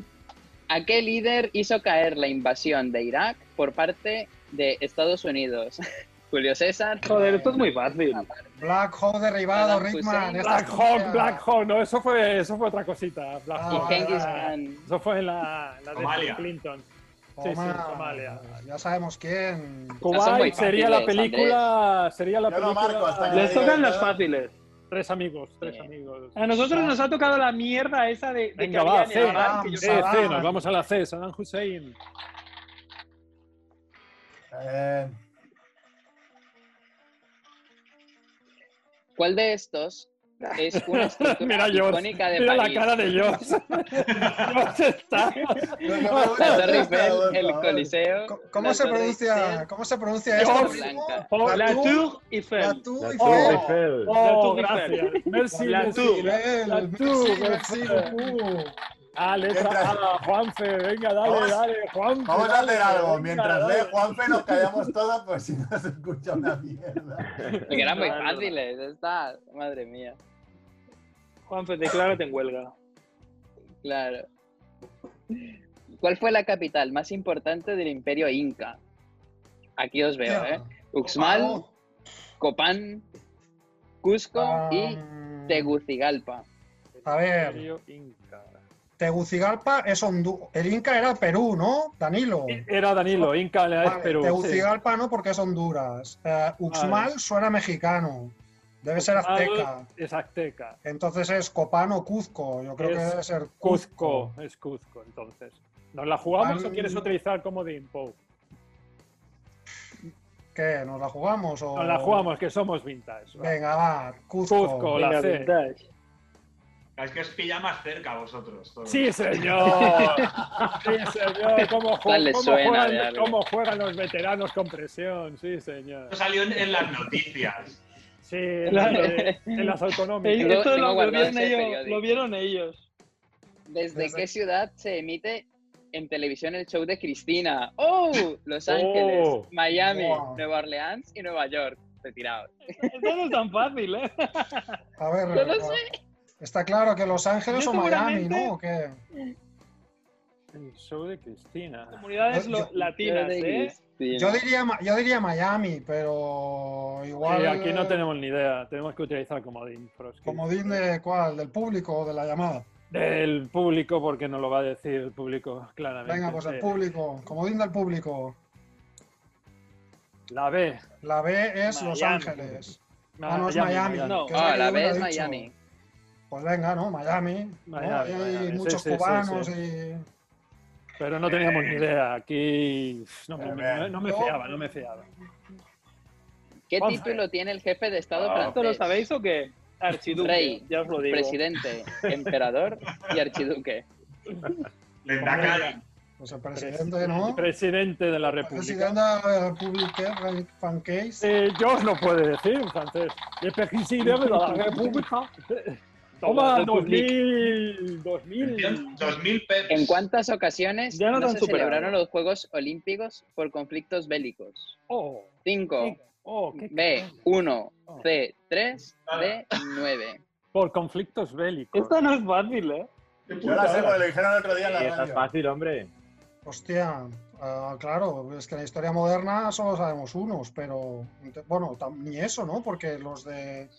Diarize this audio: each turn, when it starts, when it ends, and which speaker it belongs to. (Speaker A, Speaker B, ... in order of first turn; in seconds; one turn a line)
Speaker A: 0.7-8.5
Speaker B: 7.1-8.3
Speaker C: 8.6-11.4
Speaker A: 9.5-10.8
Speaker D: 10.4-16.9
Speaker C: 13.5-14.5
Speaker A: 13.7-14.9
Speaker E: 15.9-16.5
Speaker C: 17.4-20.5
Speaker D: 17.4-18.6
Speaker D: 20.0-23.8
Speaker A: 20.1-21.7
Speaker F: 22.5-24.2
Speaker B: 23.3-24.6
Speaker D: 24.9-26.7
Speaker A: 25.6-25.9
Speaker B: 26.4-30.5
Speaker C: 26.6-27.0
Speaker D: 28.6-32.0
Speaker C: 29.2-30.6
Speaker F: 34.5-35.2
Speaker A: 39.2-43.1
Speaker D: 40.7-47.0
Speaker E: 44.1-44.6
Speaker F: 45.8-47.9
Speaker A: 46.4-49.7
Speaker C: 48.3-53.7
Speaker A: 50.4-51.3
Speaker D: 50.4-51.9
Speaker B: 51.5-52.8
Speaker G: 53.0-54.1
Speaker D: 53.2-58.4
Speaker F: 53.3-53.8
Speaker B: 54.1-55.0
Speaker C: 55.5-58.8
Speaker B: 55.7-56.3
Speaker D: 59.2-63.4
Speaker F: 59.5-60.1
Speaker F: 61.2-61.6
Speaker F: 62.2-67.3
Speaker B: 63.1-64.0
Speaker D: 67.5-68.2
Speaker A: 67.7-70.2
Speaker B: 67.7-68.6
Speaker B: 71.5-72.7
Speaker A: 73.8-74.3
Speaker A: 76.0-78.8
Speaker A: 79.8-81.6
Speaker C: 80.2-80.7
Speaker C: 81.3-81.7
Speaker A: 82.4-83.1
Speaker A: 84.0-86.5
Speaker C: 84.3-85.8
Speaker D: 87.0-88.6
Speaker C: 87.0-87.7
Speaker C: 89.0-99.9
Speaker D: 92.5-94.7
Speaker D: 96.7-97.1
Speaker D: 99.0-100.8
Speaker C: 100.8-104.3
Speaker D: 102.8-108.2
Speaker C: 106.4-107.1
Speaker C: 110.5-112.3
Speaker D: 111.7-113.6
Speaker C: 113.3-115.0
Speaker D: 114.5-115.5
Speaker B: 115.0-115.8
Speaker E: 117.0-120.0
Speaker D: 118.9-126.1
Speaker B: 119.7-120.3
Speaker A: 122.0-123.4
Speaker E: 126.1-127.8
Speaker D: 128.2-130.7
Speaker B: 128.7-129.1
Speaker A: 128.8-129.8
Speaker B: 130.2-132.8
Speaker A: 130.4-132.2
Speaker A: 133.7-143.1
Speaker C: 133.9-134.3
Speaker G: 138.7-139.5
Speaker C: 139.7-140.4
Speaker B: 142.7-144.8
Speaker C: 145.0-145.8
Speaker A: 145.3-145.8
Speaker C: 146.4-149.0
Speaker B: 147.5-148.5
Speaker D: 150.5-152.1
Speaker B: 151.9-153.8
Speaker C: 152.3-152.7
Speaker A: 153.0-154.4
Speaker C: 154.1-158.1
Speaker D: 157.2-160.8
Speaker C: 160.2-162.7
Speaker D: 162.9-166.8
Speaker C: 166.0-168.4
Speaker D: 170.3-170.8
Speaker C: 171.0-175.5
Speaker B: 171.7-172.3
Speaker D: 172.0-174.3
Speaker B: 174.0-174.4
Speaker A: 174.3-175.5
Speaker C: 176.3-180.1
Speaker D: 177.7-179.5
Speaker D: 181.0-185.1
Speaker E: 181.3-181.8
Speaker F: 183.4-183.9
Speaker C: 184.0-184.4
Speaker A: 186.7-189.1
Speaker D: 186.8-187.2
Speaker B: 188.3-191.4
Speaker A: 190.1-193.9
Speaker E: 192.9-193.4
Speaker D: 194.3-194.7
Speaker E: 195.0-195.8
Speaker D: 195.2-195.7
Speaker C: 195.3-195.7
Speaker C: 196.2-197.5
Speaker D: 196.6-199.0
Speaker C: 198.2-201.3
Speaker D: 201.2-209.1
Speaker B: 204.3-204.6
Speaker B: 206.3-207.1
Speaker E: 208.4-210.0
Speaker A: 209.7-214.8
Speaker B: 210.9-212.0
Speaker D: 214.9-215.3
Speaker A: 215.5-216.0
Speaker D: 215.8-217.2
Speaker A: 216.5-220.2
Speaker E: 219.1-219.4
Speaker D: 220.5-222.0
Speaker B: 221.7-222.9
Speaker E: 223.3-224.1
Speaker F: 223.4-225.3
Speaker G: 224.6-225.9
Speaker C: 226.4-233.7